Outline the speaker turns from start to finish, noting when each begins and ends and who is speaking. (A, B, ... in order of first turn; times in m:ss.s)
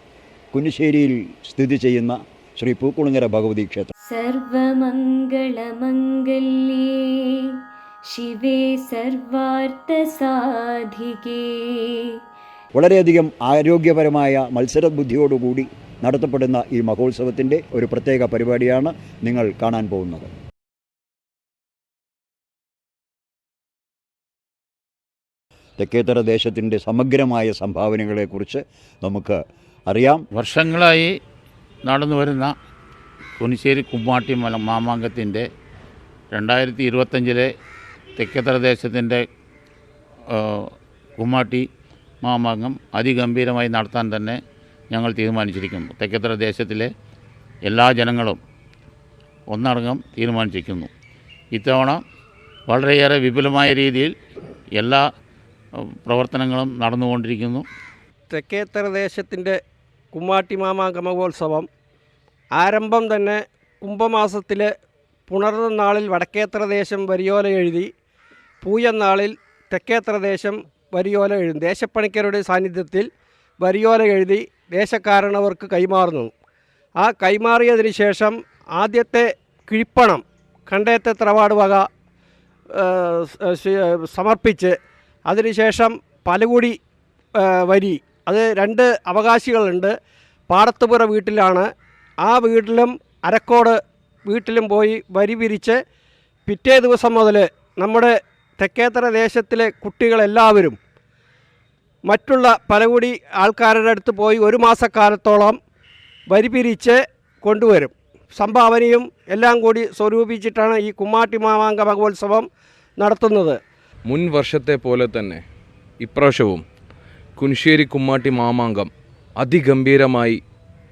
0:00.5-0:03.9 A
0:04.1-0:07.3 B
0:08.1-0:12.0 B
0:12.8-0:20.3 A
0:25.8-0:30.2 A
0:30.3-0:31.1 C
0:31.8-0:32.5 C
0:33.4-0:35.4 C
0:36.3-0:37.5 C
0:38.2-0:39.2 C
0:40.3-0:40.7 C
0:41.2-0:41.6 C
0:42.2-0:44.4 C
0:44.9-0:46.9 C
0:47.6-0:48.4 C
0:49.5-0:50.9 C
0:51.5-0:52.0 C
0:52.7-0:54.1 C
0:54.8-0:55.0 C
0:55.9-0:57.6 C
0:58.3-0:59.6 D
1:00.1-1:01.7 D
1:02.5-1:04.7 D
1:05.3-1:07.9 D
1:08.6-1:13.1 D
1:13.6-1:16.3 D
1:17.0-1:21.8 D
1:22.7-1:26.8 D
1:27.4-1:29.9 D
1:30.5-1:31.7 D
1:32.2-1:35.8 D
1:36.5-1:40.8 D
1:42.0-1:45.6 D
1:46.3-1:52.5 D
1:53.0-1:53.6 D
1:54.1-1:55.4 E
1:56.0-1:56.6 E
1:57.4-2:00.4 E